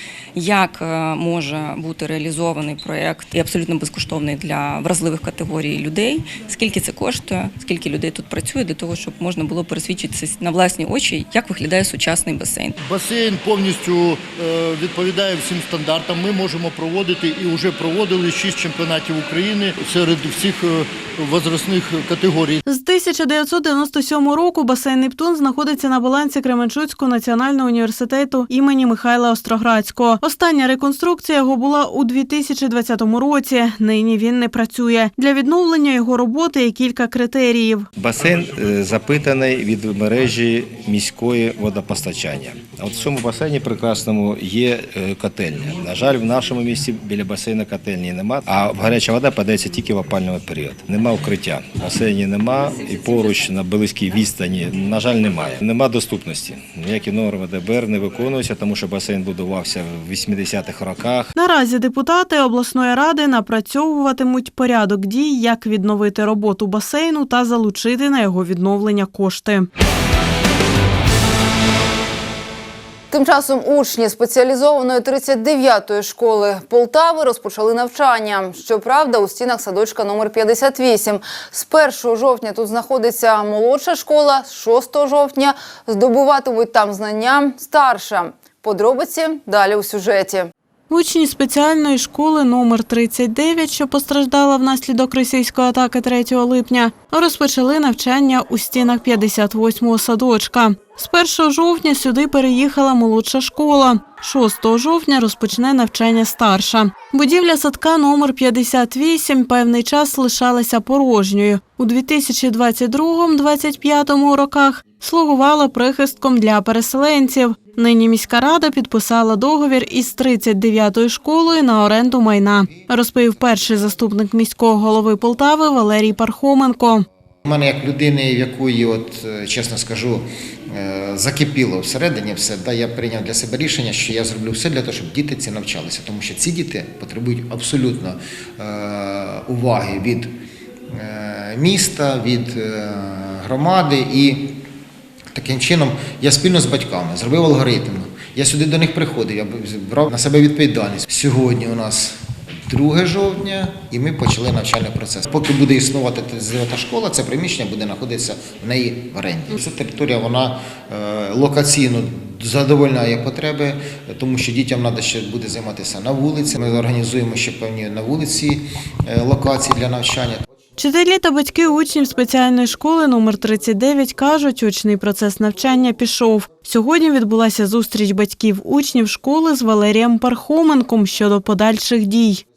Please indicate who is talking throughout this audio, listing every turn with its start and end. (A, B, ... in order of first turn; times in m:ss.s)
0:00.4-0:12.7 A
0:12.8-0:22.6 B
0:22.6-0:37.9 C
0:38.0-1:01.3 D
1:01.4-1:09.7 C
1:13.1-1:30.5 E
1:30.9-2:07.1 C
2:07.4-2:20.3 F
2:20.9-2:24.6 F
2:25.3-2:32.2 F
2:32.7-2:50.4 F
2:50.8-3:02.4 C